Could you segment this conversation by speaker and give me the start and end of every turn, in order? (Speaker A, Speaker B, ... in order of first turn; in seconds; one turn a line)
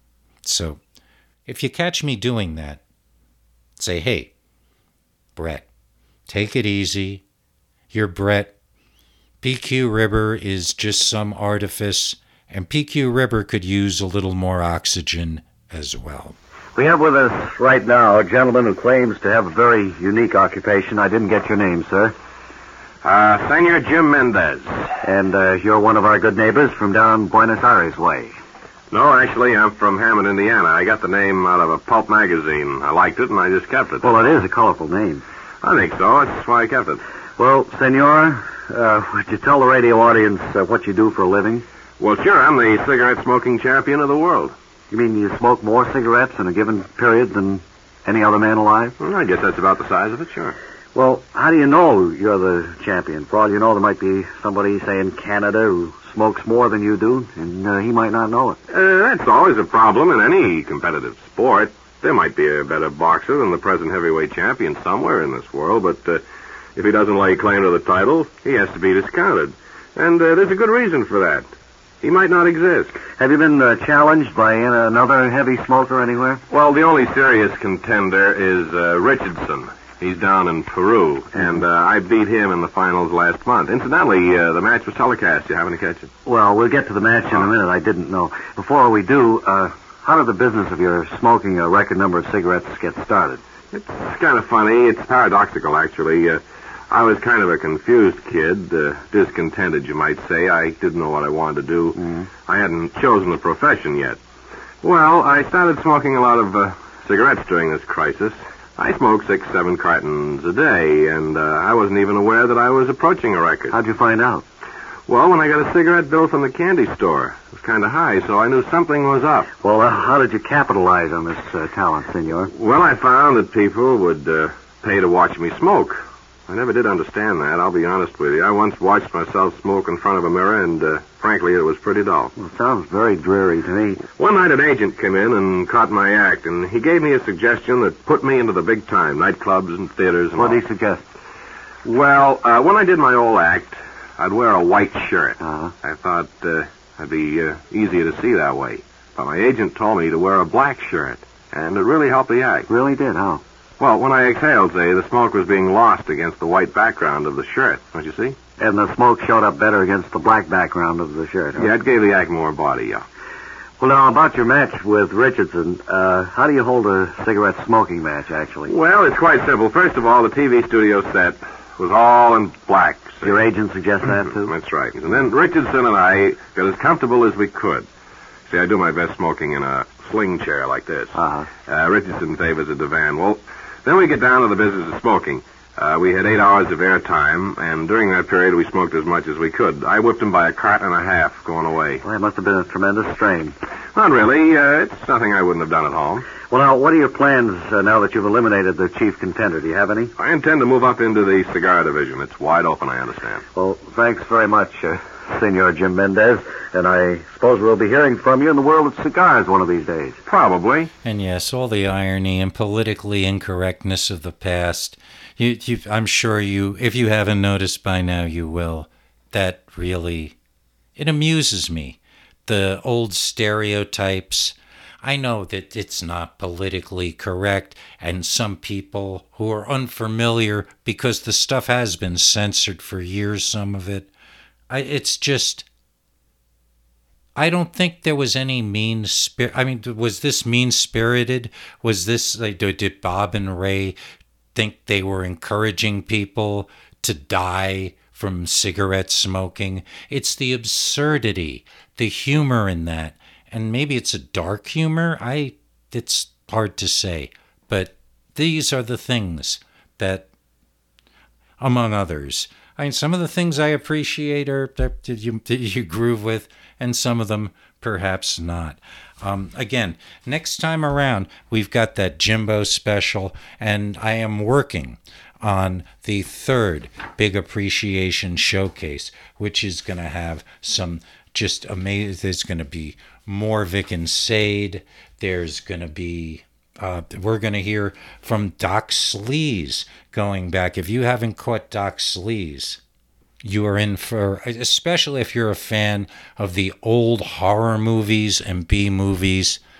Speaker A: 0.4-0.8
Speaker A: 1.4-2.8
Speaker A: 3.8-4.3
Speaker A: 5.3-5.7
Speaker A: 6.3-7.2
Speaker A: 7.9-8.5
Speaker A: 9.4-16.3
Speaker B: 16.8-22.1
Speaker C: 23.0-24.7
Speaker B: 25.0-28.3
Speaker C: 28.9-34.2
Speaker B: 34.0-35.2
Speaker C: 35.6-37.0
Speaker B: 37.4-41.6
Speaker C: 42.0-44.5
Speaker B: 44.9-48.9
Speaker C: 49.0-50.5
Speaker B: 50.9-58.6
Speaker C: 58.7-66.2
Speaker C: 66.7-71.5
Speaker C: 72.0-73.0
Speaker B: 73.2-76.4
Speaker C: 76.5-86.1
Speaker B: 86.2-93.4
Speaker C: 93.7-104.2
Speaker B: 101.9-102.3
Speaker C: 104.8-113.8
Speaker B: 113.7-114.4
Speaker C: 115.1-119.5
Speaker B: 119.6-122.5
Speaker C: 122.5-132.3
Speaker B: 132.3-134.0
Speaker C: 134.2-140.6
Speaker B: 140.3-141.0
Speaker C: 141.8-152.7
Speaker B: 145.4-145.7
Speaker B: 152.7-153.4
Speaker C: 153.8-158.4
Speaker B: 158.6-161.7
Speaker C: 161.6-163.0
Speaker B: 163.8-168.7
Speaker C: 168.7-173.4
Speaker B: 173.2-174.5
Speaker C: 174.4-177.8
Speaker C: 178.5-192.0
Speaker B: 181.1-181.5
Speaker B: 192.0-193.5
Speaker C: 193.9-196.3
Speaker B: 196.4-200.1
Speaker C: 200.2-203.4
Speaker B: 203.5-210.2
Speaker C: 210.2-210.9
Speaker A: 211.0-220.3
Speaker A: 220.9-234.1
Speaker A: 234.7-235.7
Speaker A: 237.3-243.9
Speaker A: 244.5-260.3
Speaker A: 261.6-292.8
Speaker A: 293.4-299.6